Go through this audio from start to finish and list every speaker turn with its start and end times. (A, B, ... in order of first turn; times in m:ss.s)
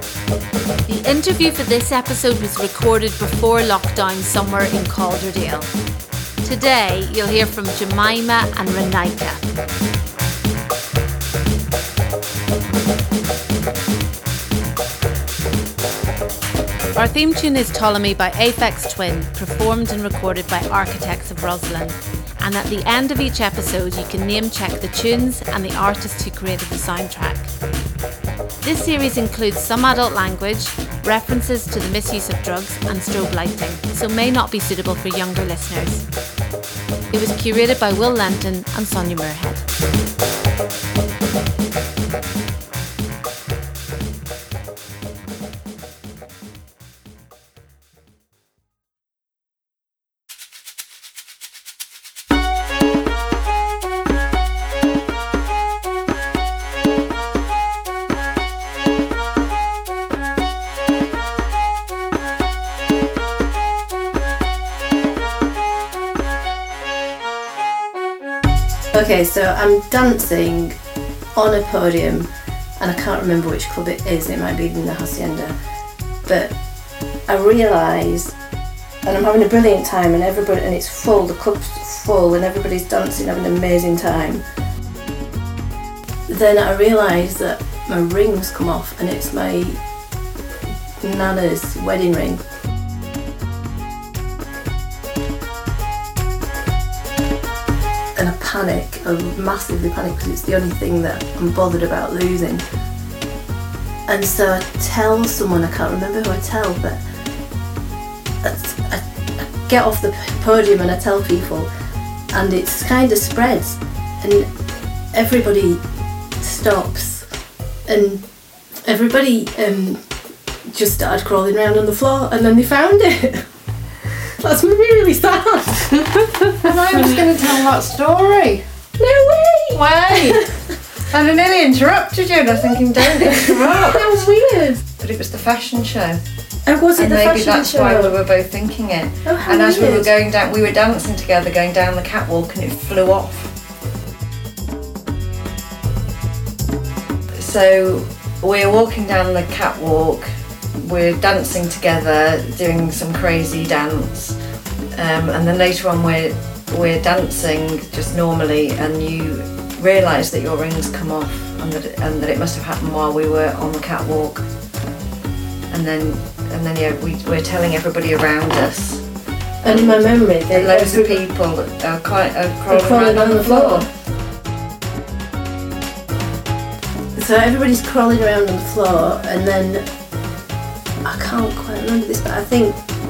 0:00.9-0:05.7 A
0:06.4-0:09.5 A
0:16.9-0:27.5 A
0:28.6-0:36.0 A
0:37.1-0:39.6 A
1:08.9-1:10.8 B
1:11.4-1:15.6 B
1:16.3-1:16.6 B
1:17.3-1:18.4 B
1:19.0-1:24.4 B
1:26.3-1:29.8 B
1:31.0-1:32.4 B
1:38.2-1:42.6 B
1:44.1-1:47.0 B
1:48.4-1:51.7 B
1:52.3-1:54.5 B
1:55.1-1:55.8 B
1:56.4-1:57.3 B
1:57.9-1:58.2 B
1:58.8-2:00.0 B
2:00.7-2:03.5 B
2:04.4-2:06.6 B
2:06.6-2:08.6 C
2:09.0-2:10.7 B
2:09.7-2:10.4 C
2:11.1-2:14.2 C
2:13.0-2:14.8 B
2:15.0-2:16.2 C
2:16.7-2:18.2 B
2:17.0-2:23.5 C
2:19.2-2:20.1 B
2:27.4-2:34.4 C
2:35.0-2:44.4 C
2:45.7-2:49.0 C
2:49.6-2:53.9 C
2:49.6-2:51.3 B
2:52.7-2:53.9 B
2:57.2-2:59.8 B
3:01.0-3:02.8 B